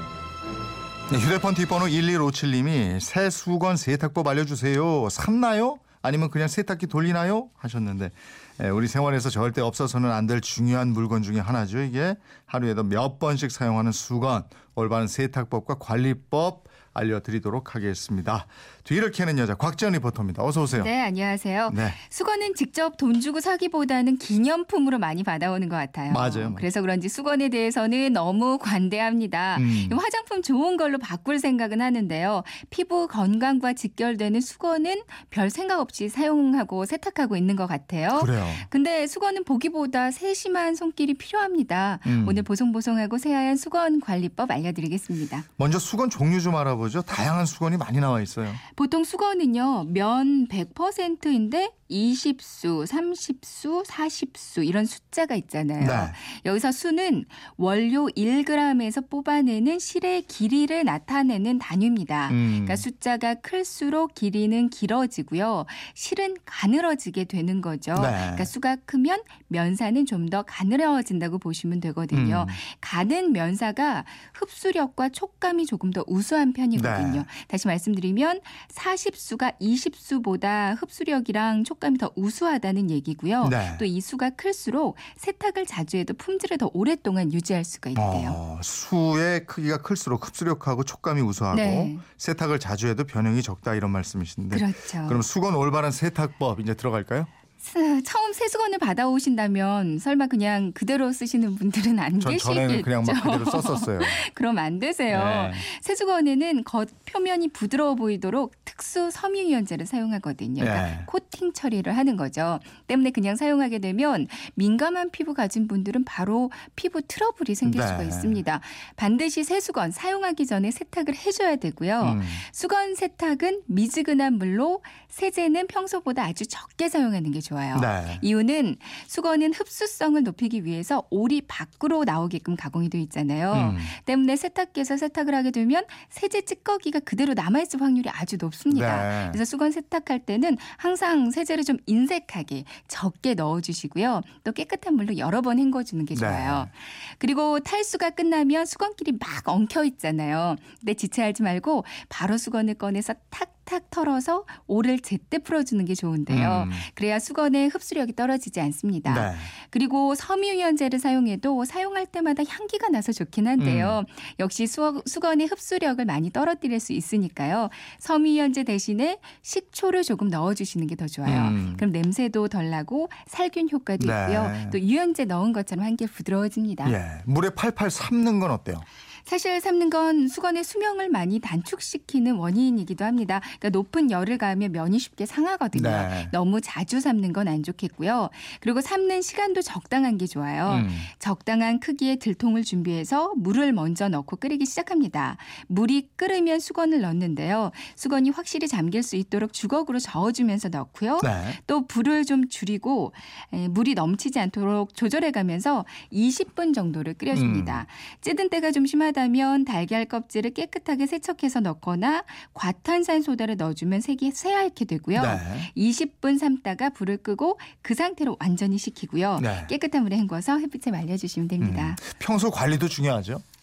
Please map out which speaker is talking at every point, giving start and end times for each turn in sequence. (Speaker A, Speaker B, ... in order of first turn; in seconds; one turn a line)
Speaker A: 1.1-20.9
Speaker B: 20.7-45.5
Speaker A: 21.7-22.0
Speaker A: 26.1-26.6
Speaker A: 29.6-30.0
Speaker A: 38.1-38.7
Speaker A: 42.0-42.5
Speaker A: 45.6-48.6
Speaker B: 48.7-88.4
Speaker A: 55.8-56.1
Speaker A: 62.3-62.8
Speaker A: 67.9-68.5
Speaker A: 72.1-72.6
Speaker A: 76.7-77.2
Speaker A: 83.4-83.8
Speaker A: 87.9-97.3
Speaker B: 91.5-92.0
Speaker B: 94.5-95.2
Speaker B: 97.6-177.0
Speaker A: 102.2-104.2
Speaker A: 105.1-105.7
Speaker A: 110.6-111.1
Speaker A: 117.6-118.4
Speaker A: 122.0-122.4
Speaker A: 127.7-128.2
Speaker A: 133.5-133.9
Speaker A: 138.7-139.4
Speaker A: 146.1-146.7
Speaker A: 156.3-156.8
Speaker A: 159.1-159.5
Speaker A: 163.6-164.0
Speaker A: 171.2-171.8
Speaker A: 174.0-174.8
Speaker A: 176.8-178.8
Speaker B: 179.2-222.0
Speaker A: 185.7-186.3
Speaker A: 190.7-191.1
Speaker A: 201.2-201.6
Speaker A: 207.3-207.8
Speaker A: 215.1-215.7
Speaker A: 219.4-219.7
Speaker A: 221.6-223.4